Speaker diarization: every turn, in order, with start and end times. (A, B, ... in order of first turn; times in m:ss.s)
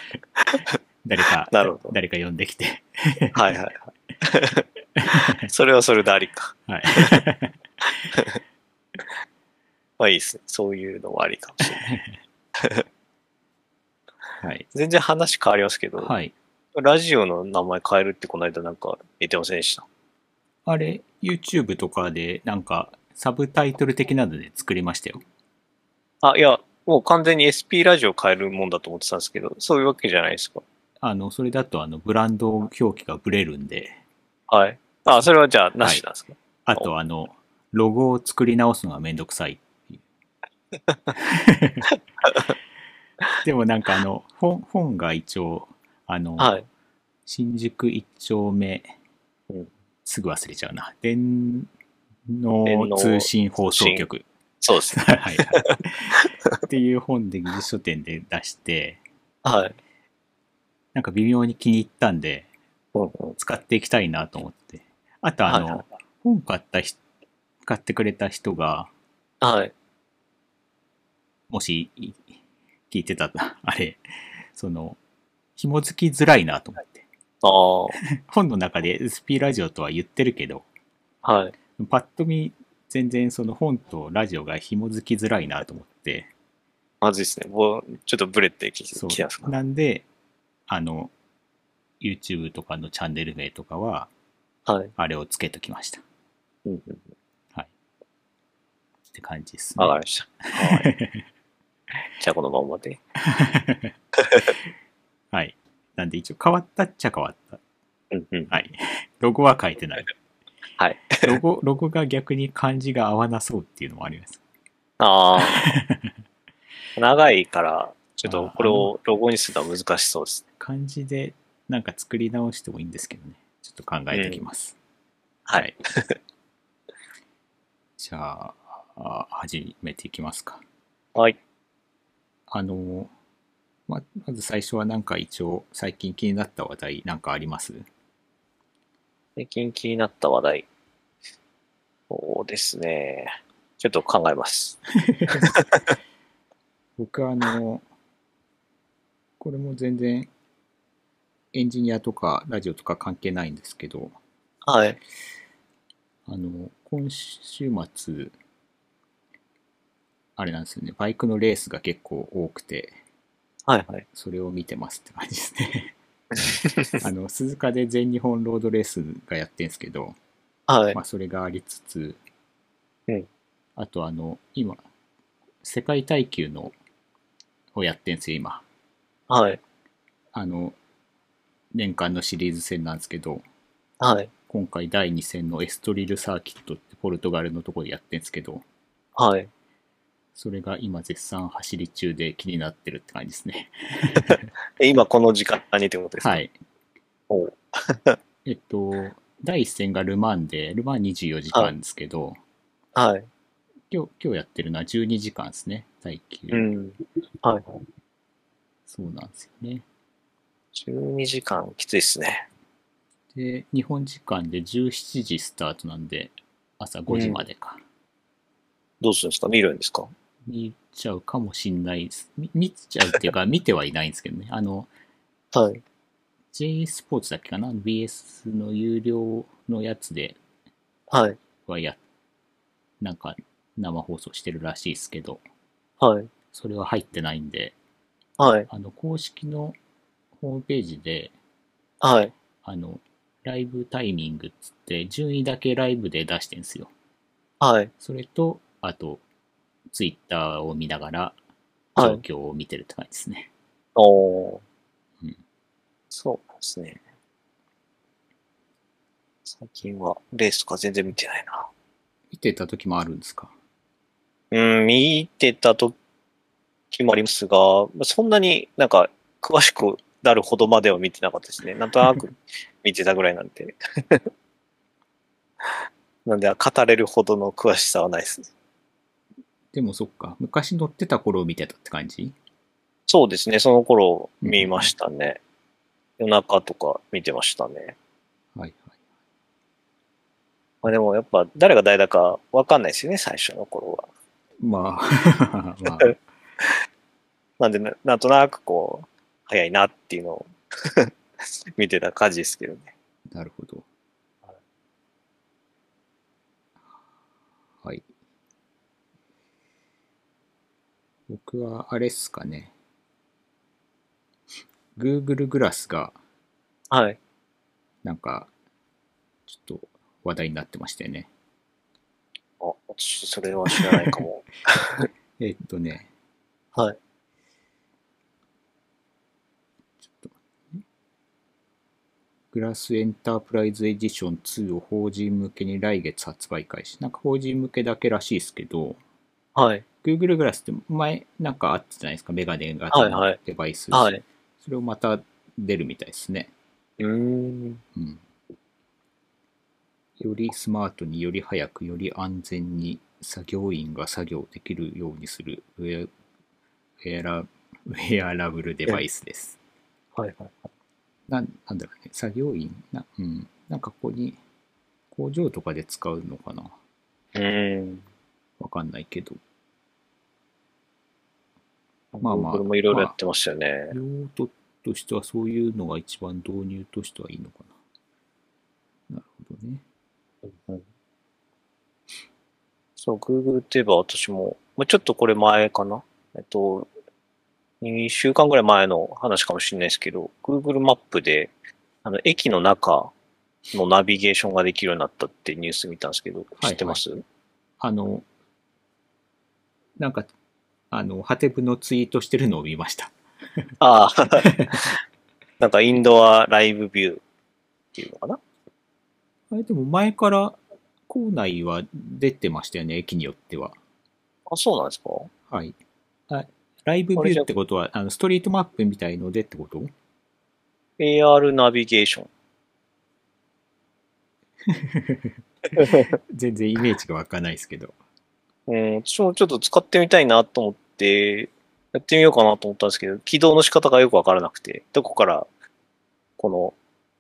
0:00.4-0:00.8 A
0:01.0-0:03.5 B
0:01.5-0:01.9 A
0:03.3-0:04.6 A
0:05.0-0:05.5 B
0:05.3-0:07.2 A
0:06.7-0:07.6 B
0:08.1-0:08.4 A
0:10.0-0:11.8 A
0:11.6-0:12.2 B
0:12.6-0:12.8 A
0:14.4-0:14.7 B
0:14.7-0:16.1 A
0:16.0-0:16.3 B
0:16.7-0:19.8 A
0:20.6-0:25.2 B
0:26.2-0:30.6 A
0:31.0-0:34.0 B
0:34.5-0:36.9 A
0:36.6-0:40.0 B
0:41.1-0:41.9 B
0:42.2-0:42.5 A
0:43.4-0:46.6 B
0:46.4-0:46.7 A
0:47.2-0:48.9 B
0:50.0-0:51.7 B
0:52.3-0:54.2 B
0:52.6-0:54.0 A
0:54.6-0:55.8 A
0:54.9-0:59.0 B
0:59.4-0:59.8 A
1:00.9-1:02.5 B
1:02.9-1:03.4 A
1:03.4-1:07.0 B
1:05.5-1:05.8 A
1:07.6-1:08.9 B
1:09.4-1:09.7 A
1:11.5-1:12.4 B
1:12.9-1:15.0 B
1:15.6-1:17.0 B
1:17.4-1:17.9 A
1:17.9-1:20.6 B
1:21.2-1:21.5 A
1:21.8-1:26.3 B
1:27.0-1:29.5 A
1:28.9-1:30.1 B
1:30.7-1:31.1 B
1:32.0-1:34.1 B
1:34.6-1:34.9 A
1:35.0-1:36.0 B
1:36.6-1:37.0 A
1:39.1-1:41.2 B
1:39.8-1:40.9 A
1:42.2-1:43.0 A
1:43.2-1:44.0 B
1:45.3-1:47.6 B
1:48.1-1:48.5 A
1:48.5-1:50.1 B
1:50.8-1:51.4 A
1:51.2-1:54.4 B
1:55.0-1:55.7 A
1:55.4-1:56.1 B
1:57.0-2:00.4 A
1:58.2-1:58.9 B
2:00.6-2:04.8 B
2:04.1-2:04.4 A
2:05.4-2:06.1 A
2:08.0-2:10.6 B
2:12.5-2:13.1 B
2:13.9-2:17.8 B
2:19.4-2:20.6 A
2:22.1-2:25.9 A
2:25.0-2:25.6 B
2:27.0-2:27.8 B
2:29.4-2:30.3 B
2:31.5-2:34.2 B
2:34.6-2:35.0 A
2:36.3-2:38.3 B
2:40.4-2:42.9 B
2:43.7-2:44.0 A
2:44.1-2:45.9 B
2:46.6-2:47.0 A
2:47.0-2:50.2 B
2:50.7-2:51.0 A
2:50.9-2:52.2 B
2:53.8-2:54.8 B
2:55.6-2:56.7 B
2:57.7-2:58.6 B
2:59.3-2:59.6 A
3:00.3-3:00.8 B
3:01.7-3:03.4 B
3:04.0-3:04.3 A
3:04.5-3:08.6 B
3:09.2-3:09.5 A
3:10.3-3:14.4 B
3:14.3-3:16.4 A
3:16.2-3:16.5 B
3:17.3-3:18.2 A
3:18.4-3:22.4 B
3:22.9-3:23.3 A
3:23.9-3:26.7 B
3:26.5-3:27.8 A
3:28.9-3:29.8 B
3:30.7-3:32.5 A
3:33.3-3:37.8 B
3:37.1-3:37.4 A
3:39.0-3:40.1 A
3:40.4-3:44.9 B
3:45.5-3:45.8 A
3:46.5-3:50.4 B
3:51.1-3:51.4 A
3:51.6-3:52.0 B
3:53.0-3:55.4 B
3:56.0-3:56.3 A
3:56.5-3:57.8 B
3:58.4-3:58.7 A
3:58.7-3:59.8 B
4:00.4-4:01.3 B
4:02.0-4:02.3 A
4:02.6-4:06.9 B
4:07.6-4:07.9 A
4:08.0-4:09.2 B
4:09.9-4:11.4 B
4:12.0-4:12.2 A
4:12.0-4:13.5 B
4:14.0-4:14.6 A
4:16.1-4:17.0 A
4:19.4-4:21.7 A
4:22.3-4:23.5 B
4:24.5-4:25.9 A
4:26.9-4:34.3 A
4:36.2-4:38.5 A
4:39.7-4:42.3 B
4:43.1-4:45.4 A
4:44.4-4:44.9 B
4:46.2-4:48.0 A
4:48.6-4:48.9 B
4:50.8-4:54.1 A
4:54.6-4:56.2 B
4:57.6-5:02.9 A
5:03.3-5:03.8 B
5:11.3-5:12.7 B
5:15.0-5:16.2 B
5:16.9-5:17.2 A
5:18.0-5:18.5 B
5:19.5-5:21.3 B
5:22.6-5:25.0 A
5:25.4-5:26.1 B
5:30.0-5:30.8 B
5:32.5-5:39.0 B
5:39.5-5:39.8 A
5:40.0-5:46.5 B
5:42.9-5:43.4 A
5:43.9-5:44.2 A
5:47.0-5:47.8 A
5:47.9-5:48.2 B
5:50.2-5:56.1 B
5:57.0-5:59.6 B
6:00.2-6:00.7 A
6:01.3-6:04.4 B
6:05.1-6:06.7 B
6:07.3-6:08.0 A
6:08.6-6:09.4 B
6:12.1-6:14.0 A
6:12.2-6:13.1 B
6:13.9-6:17.7 B
6:19.1-6:19.8 B
6:20.5-6:20.8 A
6:23.0-6:26.9 A
6:27.8-6:31.5 A
6:32.0-6:33.1 A
6:33.7-6:37.2 A
6:36.6-6:37.0 B
6:37.8-6:38.2 B
6:40.0-6:40.3 B
6:40.9-6:43.1 B
6:43.8-6:44.9 A
6:44.4-6:44.8 B
6:45.6-6:47.2 A
6:47.9-6:48.4 A
6:49.5-6:50.6 B
6:51.1-6:53.8 B
6:54.5-6:55.3 A
6:55.5-6:55.8 B
6:56.3-6:59.9 B
6:57.2-6:57.5 A
7:01.0-7:02.3 A
7:04.7-7:07.9 B
7:05.7-7:06.1 A
7:08.7-7:15.5 A
7:16.4-7:16.7 A